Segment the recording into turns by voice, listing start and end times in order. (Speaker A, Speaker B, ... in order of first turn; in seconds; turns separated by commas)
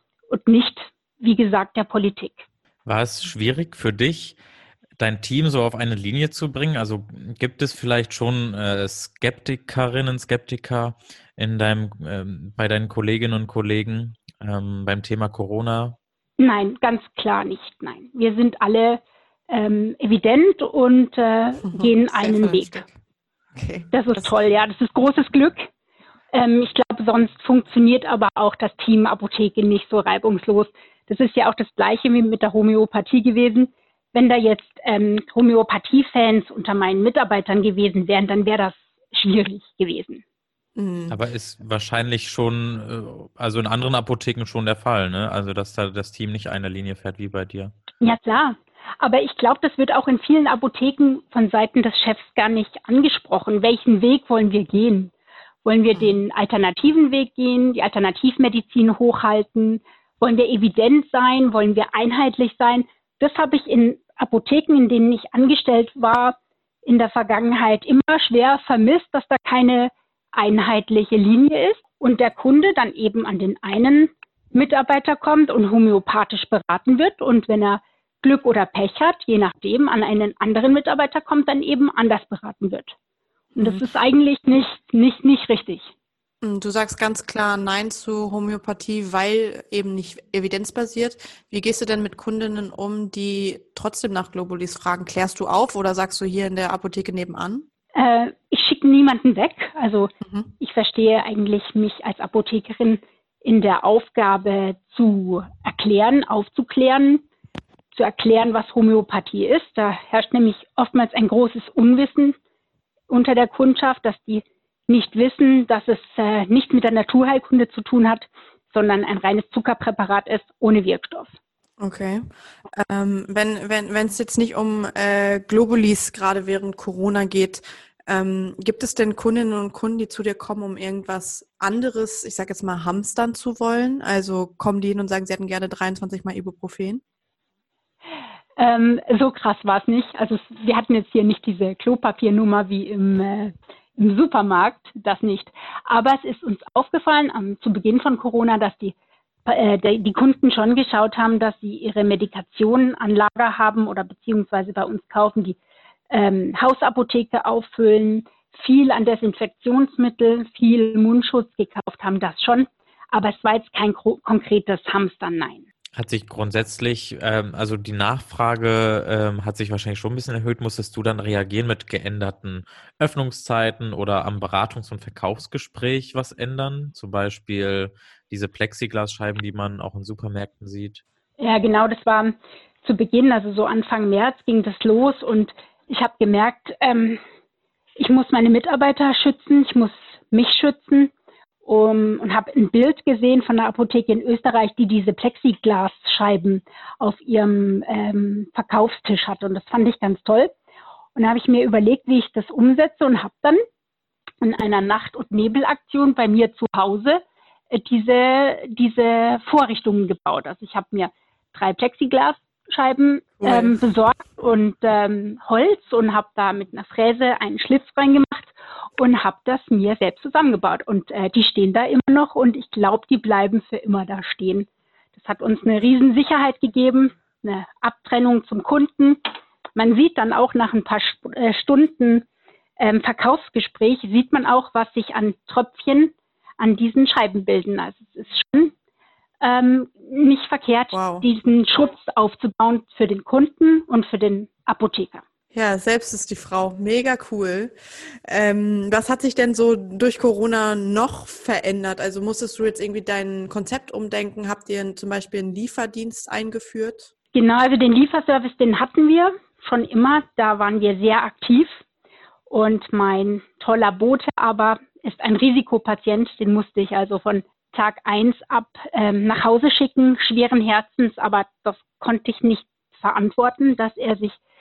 Speaker A: 0.3-2.4, Speaker B: 2.9-4.4, Speaker B: 5.0-16.0, Speaker A: 16.4-22.8, Speaker C: 21.6-23.0, Speaker C: 23.6-24.3, Speaker A: 23.9-25.7, Speaker A: 26.3-40.2, Speaker C: 40.8-41.2, Speaker B: 41.1-47.7, Speaker A: 48.0-55.1, Speaker A: 55.6-83.0, Speaker C: 83.6-83.9, Speaker A: 83.6-85.9, Speaker C: 86.4-97.7, Speaker A: 98.0-107.2, Speaker A: 107.9-112.4, Speaker A: 113.1-121.3, Speaker C: 121.8-137.0, Speaker A: 138.6-148.9, Speaker A: 149.5-155.6, Speaker A: 156.1-165.7, Speaker B: 166.0-181.0, Speaker A: 181.4-187.2, Speaker A: 188.0-191.1, Speaker A: 191.7-200.5, Speaker A: 201.2-203.6, Speaker A: 204.4-229.2, Speaker C: 213.4-213.8, Speaker A: 229.8-232.3, Speaker A: 232.8-238.7, Speaker A: 239.4-245.2, Speaker C: 240.9-241.3, Speaker C: 245.5-257.1, Speaker A: 257.3-261.8, Speaker A: 262.5-274.4